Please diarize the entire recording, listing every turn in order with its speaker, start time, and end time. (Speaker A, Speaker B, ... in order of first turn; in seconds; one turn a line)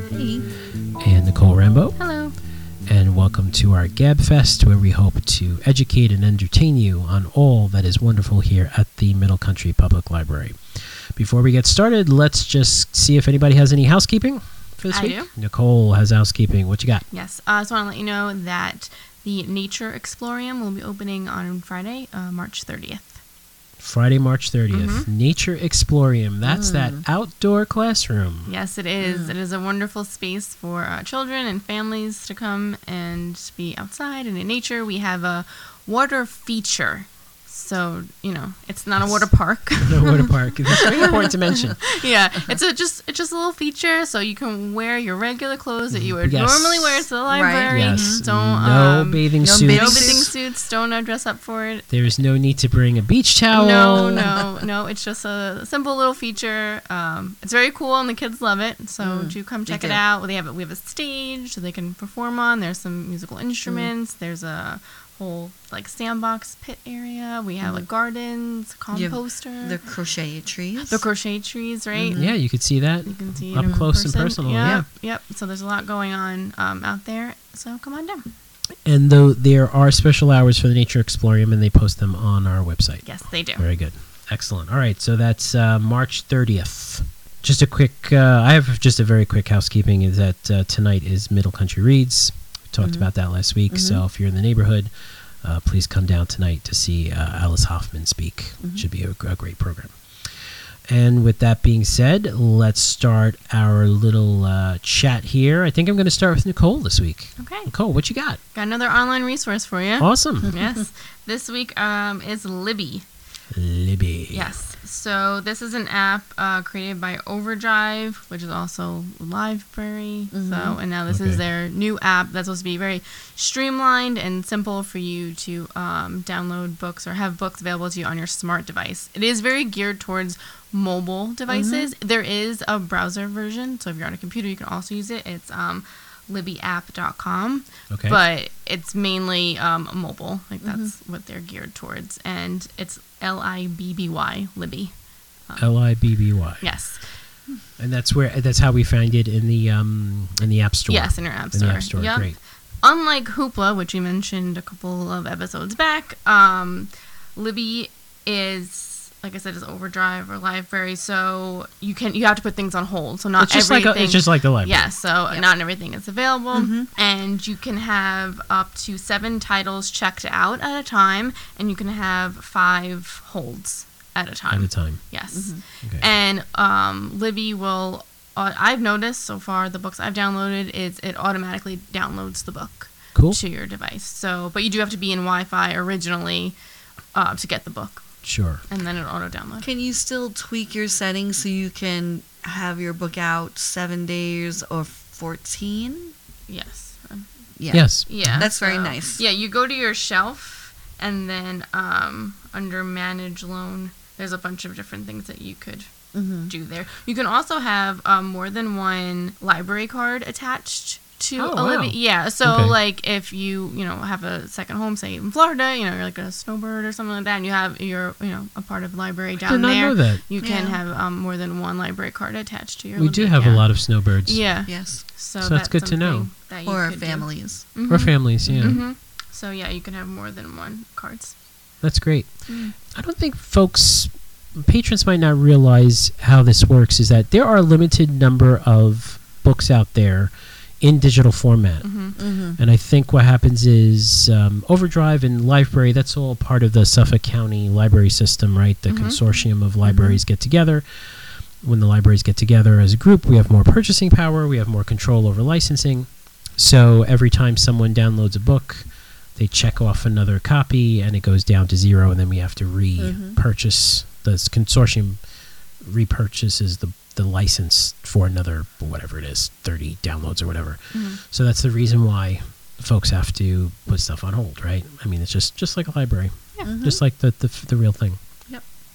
Speaker A: 0.1-0.5
Speaker B: 1.0-2.0
Speaker C: 2.0-2.4
Speaker B: 2.9-10.6
Speaker B: 11.1-17.0
Speaker C: 14.9-15.3
Speaker C: 17.1-23.2
Speaker B: 23.8-28.5
Speaker C: 24.7-25.1
Speaker A: 26.4-27.0
Speaker C: 28.4-41.2
Speaker A: 29.0-29.3
Speaker B: 39.8-41.9
Speaker C: 41.8-51.8
Speaker B: 46.2-47.1
Speaker A: 47.3-48.2
Speaker B: 47.7-50.2
Speaker A: 49.4-50.3
Speaker B: 51.9-54.4
Speaker C: 53.5-69.8
Speaker A: 53.9-54.4
Speaker A: 59.0-60.0
Speaker A: 63.6-63.9
Speaker A: 67.6-67.9
Speaker A: 68.9-71.0
Speaker C: 70.8-72.4
Speaker A: 71.9-72.3
Speaker B: 72.1-74.9
Speaker C: 73.0-78.3
Speaker A: 73.6-73.9
Speaker B: 78.8-94.9
Speaker C: 83.0-83.7
Speaker A: 92.8-93.1
Speaker A: 93.7-94.0
Speaker B: 95.4-99.9
Speaker B: 100.9-108.4
Speaker C: 107.4-107.7
Speaker C: 108.5-113.0
Speaker B: 110.0-110.5
Speaker B: 113.5-114.5
Speaker C: 114.3-144.9
Speaker A: 120.3-120.8
Speaker B: 121.1-121.4
Speaker A: 131.5-131.9
Speaker B: 137.9-138.2
Speaker A: 140.6-140.9
Speaker C: 145.5-146.0
Speaker B: 145.6-146.7
Speaker C: 146.6-147.0
Speaker B: 147.8-152.3
Speaker C: 150.9-186.6
Speaker B: 163.4-164.9
Speaker A: 166.5-166.9
Speaker B: 174.5-175.0
Speaker A: 175.3-175.6
Speaker B: 183.1-183.4
Speaker C: 187.1-189.7
Speaker B: 188.2-188.6
Speaker A: 189.6-196.1
Speaker C: 196.5-197.2
Speaker A: 197.6-199.2
Speaker B: 197.7-198.4
Speaker C: 197.8-231.3
Speaker A: 206.1-206.5
Speaker B: 211.4-212.8
Speaker B: 219.4-220.2
Speaker A: 220.4-220.8
Speaker B: 222.9-224.4
Speaker A: 224.7-225.0
Speaker B: 225.4-226.3
Speaker A: 226.6-227.7
Speaker B: 227.9-228.8
Speaker A: 228.4-228.8
Speaker B: 231.8-250.8
Speaker A: 232.5-232.7
Speaker C: 241.8-242.2
Speaker A: 242.2-242.6
Speaker C: 248.9-249.2
Speaker A: 249.8-250.2
Speaker B: 251.6-265.2
Speaker A: 263.0-263.4
Speaker B: 265.8-278.2
Speaker C: 270.9-271.2
Speaker A: 276.6-277.0